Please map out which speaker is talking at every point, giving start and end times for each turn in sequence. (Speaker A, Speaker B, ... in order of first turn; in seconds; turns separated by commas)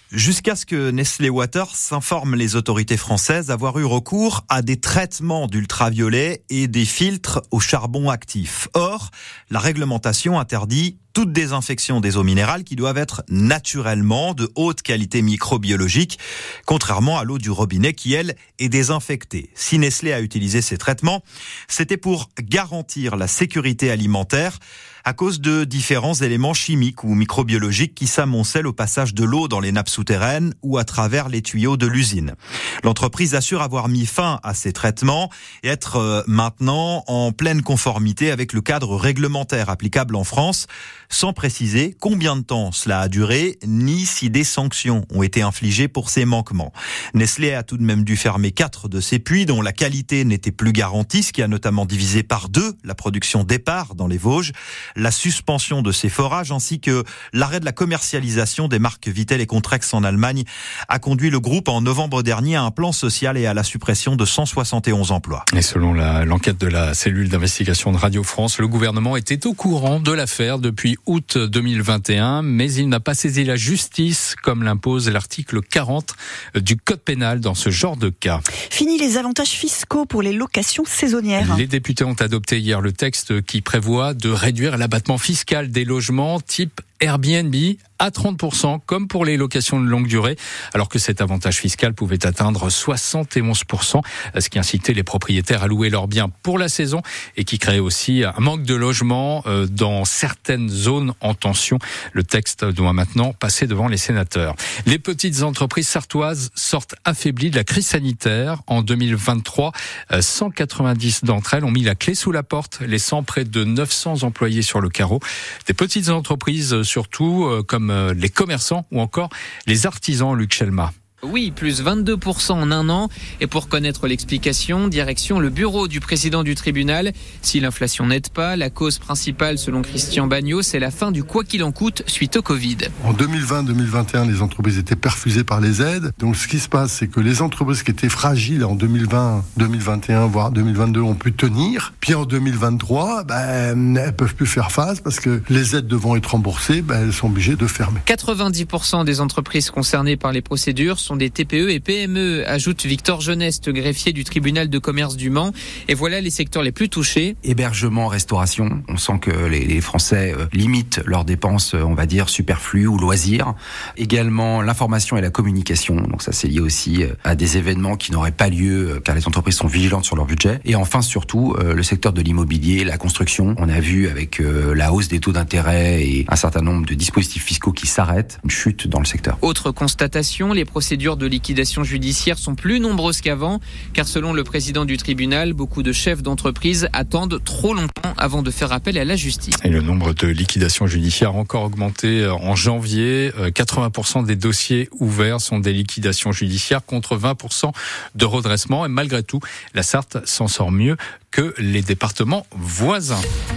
Speaker A: 0.1-65.4, Speaker B: 65.5-78.4, Speaker C: 78.7-81.6, Speaker B: 81.4-120.9, Speaker D: 121.2-132.9, Speaker E: 133.0-148.0, Speaker D: 148.1-157.3, Speaker F: 157.4-179.4, Speaker D: 179.4-189.6, Speaker B: 189.6-203.2